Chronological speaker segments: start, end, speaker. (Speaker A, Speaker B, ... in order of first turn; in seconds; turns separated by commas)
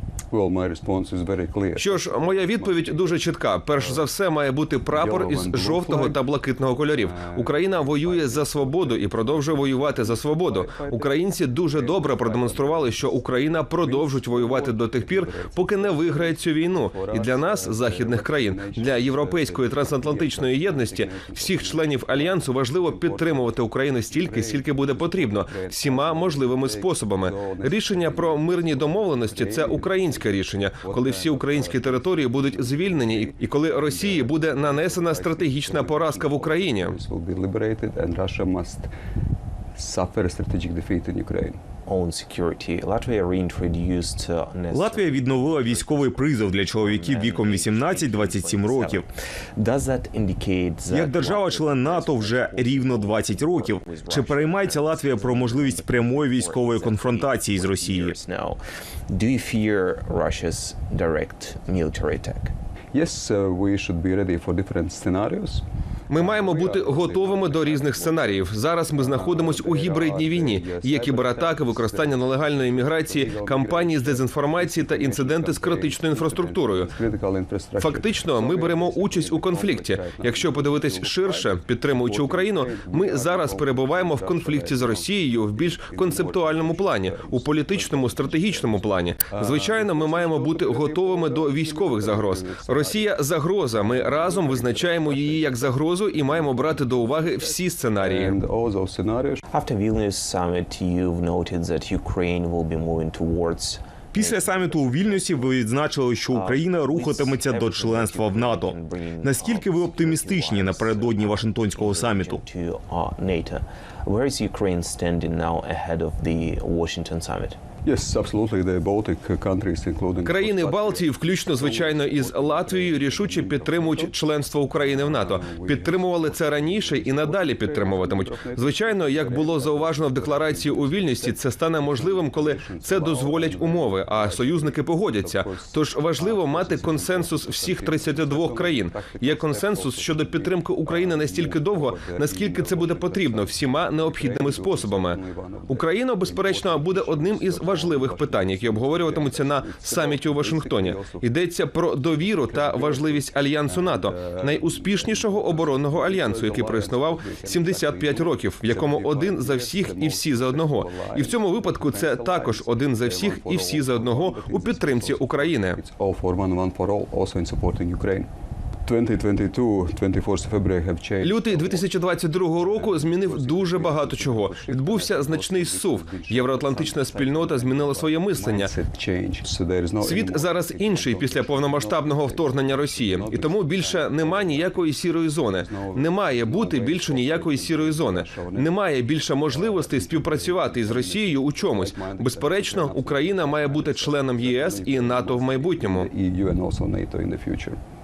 Speaker A: 0.3-3.2, Speaker B: 1.8-36.9, Speaker A: 3.8-4.1, Speaker A: 4.9-6.2, Speaker A: 7.0-38.9, Speaker A: 39.8-41.6, Speaker C: 41.9-62.5, Speaker D: 44.7-49.0, Speaker D: 50.9-58.2, Speaker A: 62.9-67.5, Speaker B: 66.1-76.9, Speaker C: 67.0-68.5, Speaker A: 68.9-99.4, Speaker B: 77.8-98.4, Speaker C: 99.5-105.6, Speaker D: 104.1-112.4, Speaker C: 106.3-117.6, Speaker A: 117.8-124.1, Speaker B: 120.2-165.8, Speaker A: 124.7-151.3, Speaker A: 152.2-168.3, Speaker A: 168.8-171.9, Speaker B: 171.2-178.7, Speaker A: 172.6-184.9, Speaker B: 180.0-196.1, Speaker A: 185.5-188.7, Speaker A: 189.5-197.8